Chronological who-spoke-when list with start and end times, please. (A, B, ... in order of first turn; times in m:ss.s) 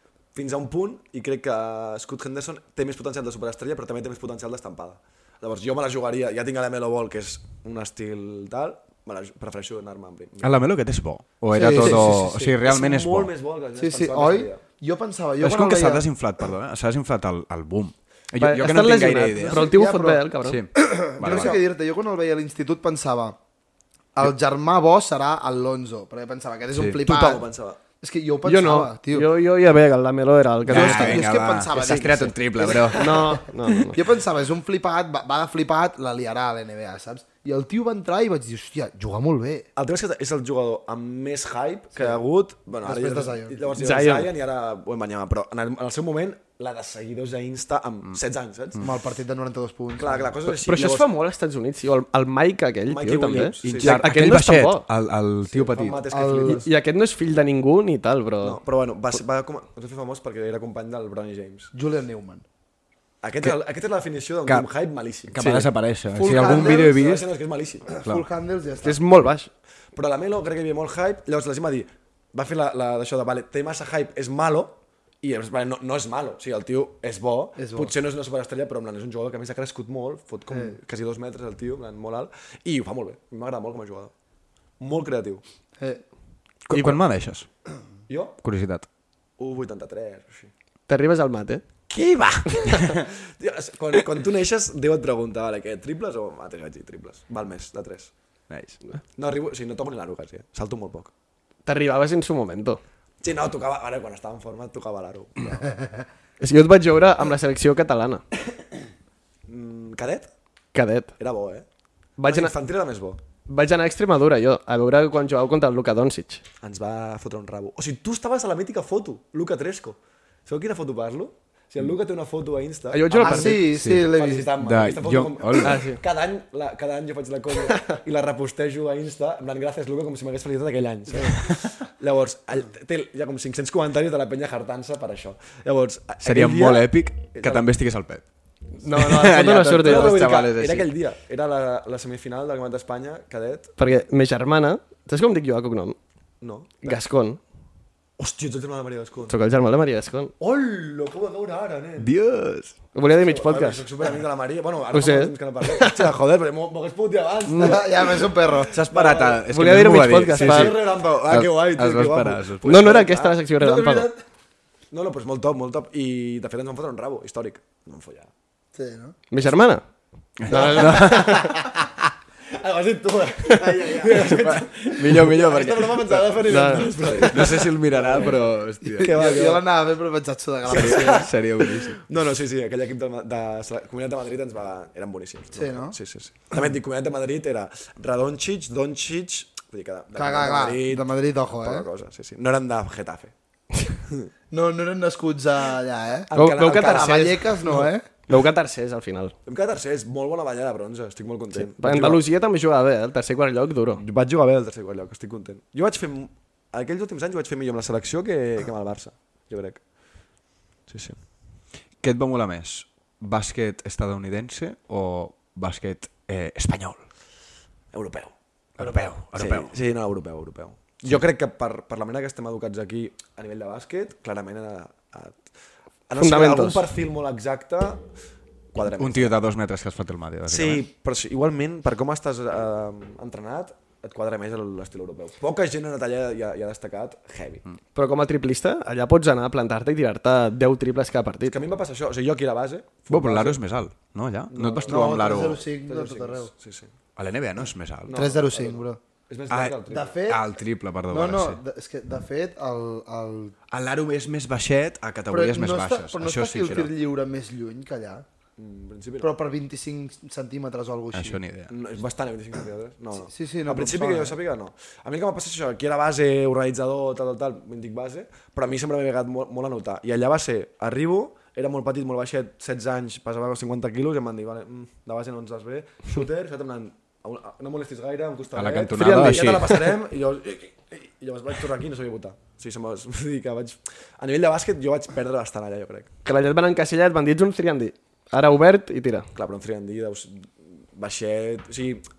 0:00.3-0:10.6 A
0:10.4-0:13.3 B
0:11.5-0:12.5 C
0:11.6-0:14.6 A
0:13.8-0:16.0 C
0:15.4-0:19.7 B
0:18.4-0:20.6 D
0:19.4-0:23.4 C
0:20.4-0:21.6 B
0:21.2-0:21.6 A
0:24.1-0:27.4 C
0:27.0-0:27.8 A
0:28.0-0:29.3 C
0:28.4-0:31.3 D
0:30.7-0:33.4 B
0:30.7-0:39.7 C
0:32.9-0:34.0 D
0:39.8-0:48.9 A
0:42.8-0:43.6 C
0:43.7-0:44.3 D
0:48.8-0:50.3 C
0:50.0-0:51.0 A
0:50.4-0:54.8 D
0:52.9-0:54.1 A
0:53.6-0:56.0 B
0:55.5-0:56.7 A
0:56.1-0:56.6 C
0:56.4-0:58.6 D
0:58.4-1:01.7 A
1:01.7-1:02.4 C
1:03.2-1:05.4 A
1:05.3-1:07.3 B
1:05.4-1:05.7 D
1:06.1-1:07.0 C
1:06.2-1:08.0 A
1:07.9-1:09.0 C
1:08.8-1:09.5 D
1:09.9-1:24.1 A
1:17.6-1:17.9 C
1:20.5-1:20.7 C
1:24.8-1:25.4 A
1:26.7-1:27.5 B
1:26.7-1:27.0 D
1:28.1-1:28.4 A
1:28.4-1:28.9 B
1:29.4-1:30.5 A
1:30.9-1:31.6 D
1:31.9-1:38.1 A
1:32.5-1:32.9 D
1:38.5-1:38.8 B
1:39.2-1:41.1 A
1:41.6-1:42.8 D
1:43.2-1:45.6 A
1:45.5-1:46.0 C
1:46.4-1:48.2 D
1:49.5-1:50.3 A
1:50.7-1:51.1 D
1:51.2-1:51.6 A
1:52.2-1:52.5 D
1:52.2-1:53.2 A
1:53.4-1:56.4 D
1:56.6-2:17.7 A
2:02.9-2:03.7 D
2:03.1-2:04.5 C
2:03.7-2:05.8 B
2:05.6-2:06.0 D
2:16.2-2:18.2 B
2:18.8-2:20.2 D
2:18.8-2:20.9 B
2:19.4-2:23.7 A
2:23.8-2:26.0 D
2:26.4-2:27.0 A
2:26.8-2:27.4 D
2:28.2-2:29.4 A
2:29.3-2:30.3 D
2:30.4-2:32.1 A
2:32.0-2:32.8 B
2:32.9-2:33.8 D
2:33.2-2:39.4 A
2:34.9-2:36.1 D
2:37.5-2:37.8 B
2:37.6-2:38.8 C
2:38.8-2:42.8 B
2:39.5-2:40.7 D
2:40.3-2:43.4 A
2:42.6-2:44.1 D
2:43.6-2:44.2 C
2:44.9-2:48.3 A
2:48.7-2:49.2 C
2:49.3-2:49.8 D
2:50.4-2:51.8 B
2:50.5-2:51.6 D
2:50.5-2:51.3 A
2:52.5-2:59.6 A
2:53.5-2:54.0 D
2:53.8-2:56.3 B
2:56.4-2:57.5 D
2:57.2-2:59.2 B
2:58.9-3:01.3 C
3:00.7-3:13.3 A
3:00.7-3:02.0 B
3:05.5-3:06.0 C
3:10.1-3:11.8 C
3:14.5-3:18.0 C
3:16.3-3:17.9 A
3:16.3-3:17.6 D
3:18.3-3:19.3 D
3:19.4-3:22.2 A
3:21.5-3:24.0 D
3:23.9-3:29.8 A
3:30.9-3:31.2 A
3:32.0-3:37.0 B
3:37.9-3:45.4 A
3:38.8-3:39.7 B
3:46.1-3:48.0 A
3:46.2-3:46.8 D
3:48.7-3:49.4 A
3:48.8-3:50.8 B
3:50.5-3:57.6 A
3:57.9-4:01.6 D
4:01.5-4:03.6 A
4:03.1-4:05.6 B
4:04.5-4:06.9 A
4:04.9-4:06.5 C
4:07.2-4:08.2 B
4:08.0-4:10.1 A
4:08.1-4:09.0 C
4:09.5-4:11.6 B
4:09.9-4:10.5 C
4:11.1-4:13.5 C
4:13.7-4:16.9 B
4:15.3-4:18.2 C
4:18.6-4:19.3 A
4:19.2-4:21.4 C
4:21.1-4:21.7 B
4:21.7-4:46.1 A
4:23.2-4:24.4 C
4:38.5-4:39.9 B
4:39.0-4:39.8 D
4:46.2-4:49.3 D
4:49.3-4:52.0 A